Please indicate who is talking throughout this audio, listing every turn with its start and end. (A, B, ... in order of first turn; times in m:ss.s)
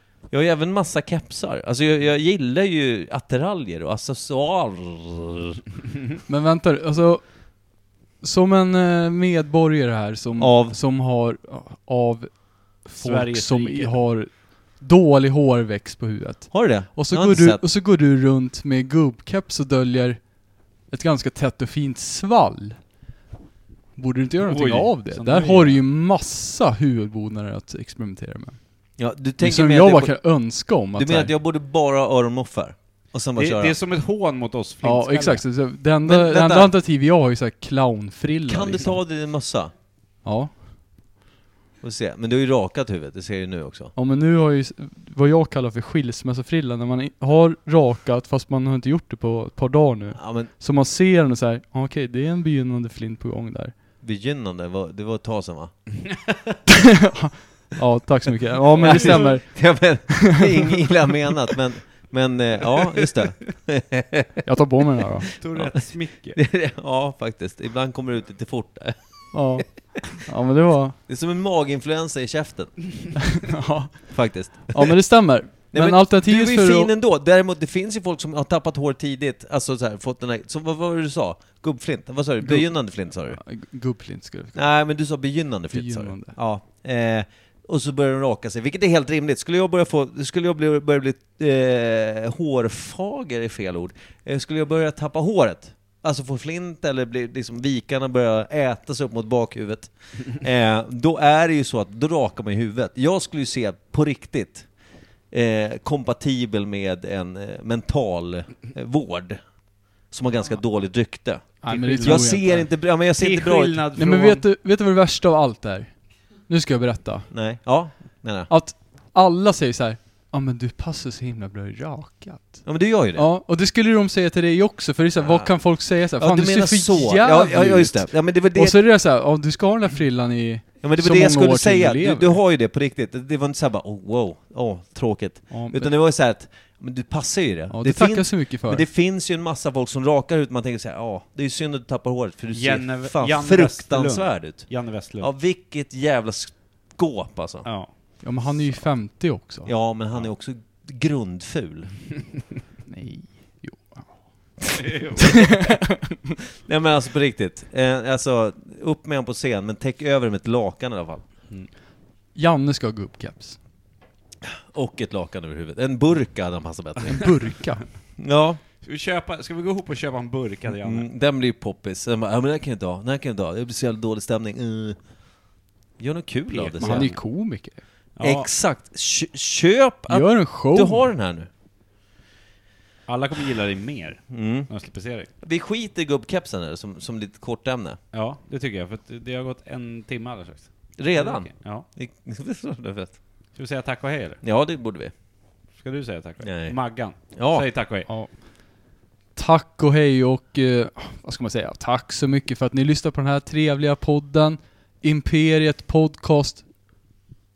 0:00.3-0:05.6 A
0:06.3-0:22.8 B
0:10.4-0:10.8 A
0:13.0-0:13.9 C
0:16.5-0:17.6 A
0:24.0-0:28.6 B
0:24.4-0:25.8 C
0:29.0-0:33.7 A
0:29.4-0:31.3 B
0:33.4-0:35.4 C
0:34.8-0:39.0 B
0:36.0-0:36.7 A
0:38.4-0:39.7 A
0:40.2-0:40.6 B
0:41.8-0:43.9 A
0:43.9-0:53.7 B
0:50.1-0:50.5 A
0:54.0-0:56.4 A
0:56.8-1:00.4 B
0:58.7-0:59.4 C
0:58.8-1:04.5 A
1:04.4-1:05.3 B
1:05.4-1:06.4 C
1:05.4-1:09.6 A
1:09.3-1:11.0 B
1:11.1-1:13.2 A
1:13.4-1:16.9 B
1:14.1-1:15.0 A
1:15.7-1:23.4 A
1:22.4-1:24.6 B
1:24.5-1:44.7 A
1:25.7-1:26.4 B
1:45.3-1:49.4 A
1:50.1-1:53.8 A
1:51.6-1:52.7 B
1:51.6-1:54.4 C
1:54.0-1:57.3 B
1:57.3-1:58.5 A
1:58.5-2:12.4 B
2:02.6-2:03.3 A
2:05.2-2:08.8 A
2:10.8-2:27.7 A
2:15.5-2:15.9 B
2:17.7-2:18.8 B
2:22.5-2:25.3 C
2:27.6-2:27.9 C
2:28.2-2:29.7 B
2:29.6-2:32.0 A
2:32.9-2:34.5 B
2:34.7-2:35.4 C
2:35.2-2:35.6 A
2:35.2-2:36.1 B
2:36.6-2:41.2 A
2:42.3-2:43.6 B
2:44.4-2:47.5 A
2:47.1-2:47.8 B
2:48.2-2:48.6 A
2:48.8-2:51.1 C
2:50.7-2:55.0 A
2:56.0-2:57.2 A
2:56.5-2:57.2 C
2:56.8-2:57.8 B
2:58.2-2:58.5 C
2:58.2-3:01.5 A
3:00.1-3:01.1 B
3:03.1-3:05.3 C
3:04.3-3:04.7 A
3:05.4-3:08.0 A
3:08.1-3:11.8 C
3:11.0-3:13.2 A
3:13.5-3:14.4 C
3:14.4-3:15.1 A
3:15.7-3:18.1 C
3:16.4-3:17.7 A
3:18.1-3:18.7 B
3:19.3-3:26.6 B